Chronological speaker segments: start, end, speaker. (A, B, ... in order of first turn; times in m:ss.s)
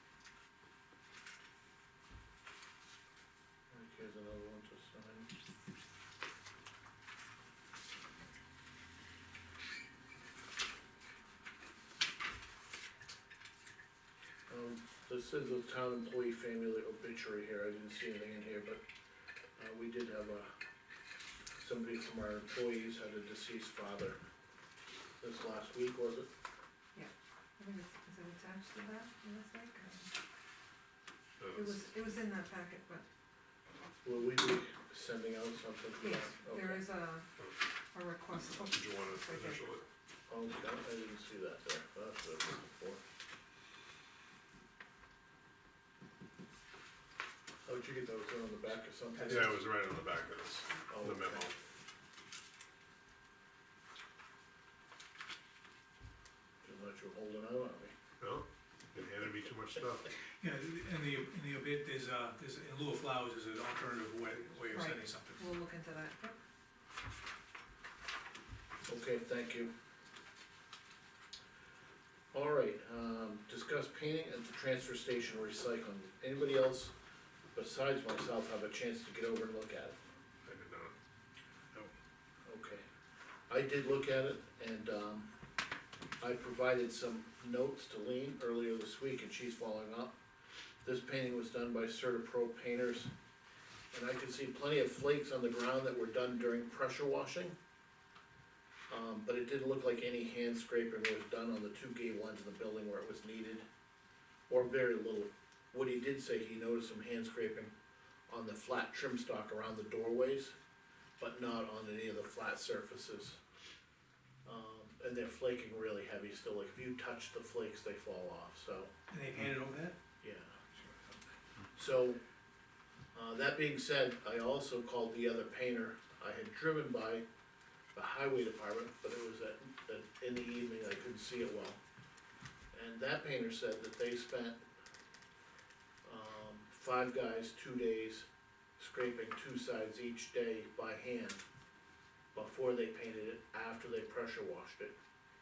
0:03.7-0:05.3 A
0:14.5-0:18.8 A
0:19.6-0:20.5 A
0:21.6-0:24.2 A
0:25.2-0:26.3 A
0:26.9-0:30.1 B
0:31.4-0:31.8 C
0:31.5-0:33.0 B
0:34.0-0:36.8 A
0:36.0-0:37.3 B
0:37.9-0:39.6 B
0:38.7-0:39.8 C
0:40.3-0:43.0 A
0:47.6-0:49.6 A
0:49.2-0:49.5 D
0:49.3-0:51.5 C
0:50.9-0:51.4 A
0:56.6-0:57.9 A
0:58.2-1:00.1 C
1:00.4-1:05.4 D
1:04.7-1:06.4 B
1:08.8-1:09.7 A
1:12.3-1:16.9 A
1:17.5-1:20.0 A
1:20.4-1:20.9 C
1:22.4-1:22.8 A
1:23.5-1:25.3 A
1:26.2-1:30.1 A
1:30.8-1:33.1 A
1:33.9-1:37.5 A
1:38.9-1:43.6 A
1:44.5-1:47.7 A
1:48.3-1:50.5 A
1:51.2-1:53.4 A
1:54.4-1:58.9 A
1:59.1-2:00.0 D
2:00.2-2:00.6 A
2:01.7-2:02.2 A
2:03.1-2:07.2 A
2:07.9-2:11.8 A
2:12.7-2:14.6 A
2:16.0-2:18.3 A
2:18.8-2:21.4 A
2:22.3-2:24.9 A